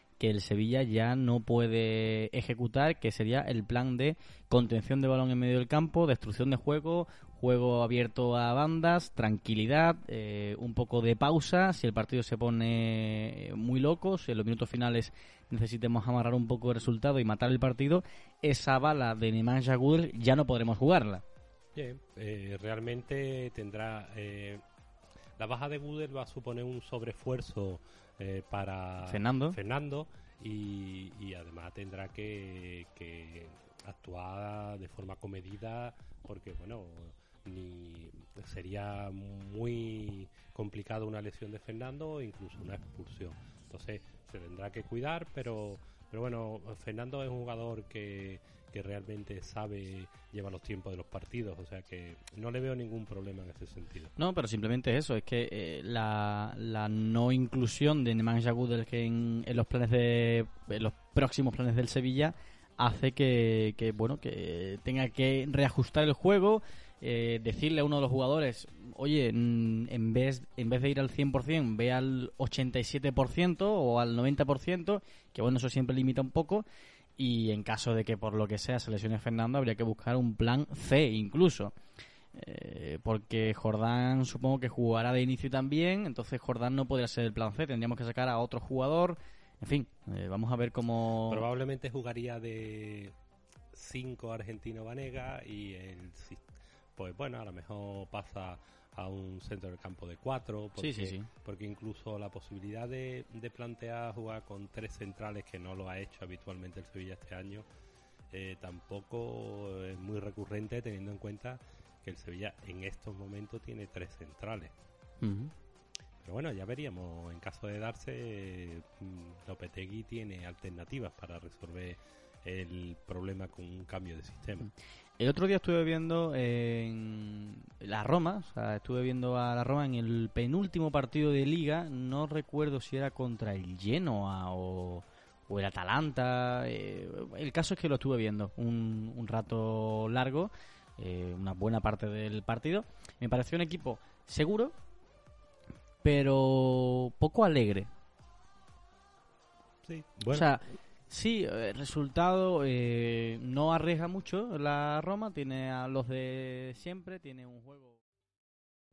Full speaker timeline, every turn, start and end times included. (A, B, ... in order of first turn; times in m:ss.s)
0:00.2-0:21.2 A
0:21.7-0:24.6 B
0:25.4-0:54.1 B
0:29.0-0:29.6 A
0:54.2-1:16.6 A
1:17.2-1:21.7 A
1:22.3-1:31.4 A
1:31.3-1:33.1 B
1:33.7-1:36.4 B
1:37.0-1:47.6 B
1:40.8-1:41.3 A
1:48.3-1:54.7 B
1:55.2-1:55.5 A
1:56.2-2:04.7 B
2:05.2-2:24.7 A
2:26.0-2:27.9 A
2:29.8-2:30.4 B
2:30.3-2:38.0 A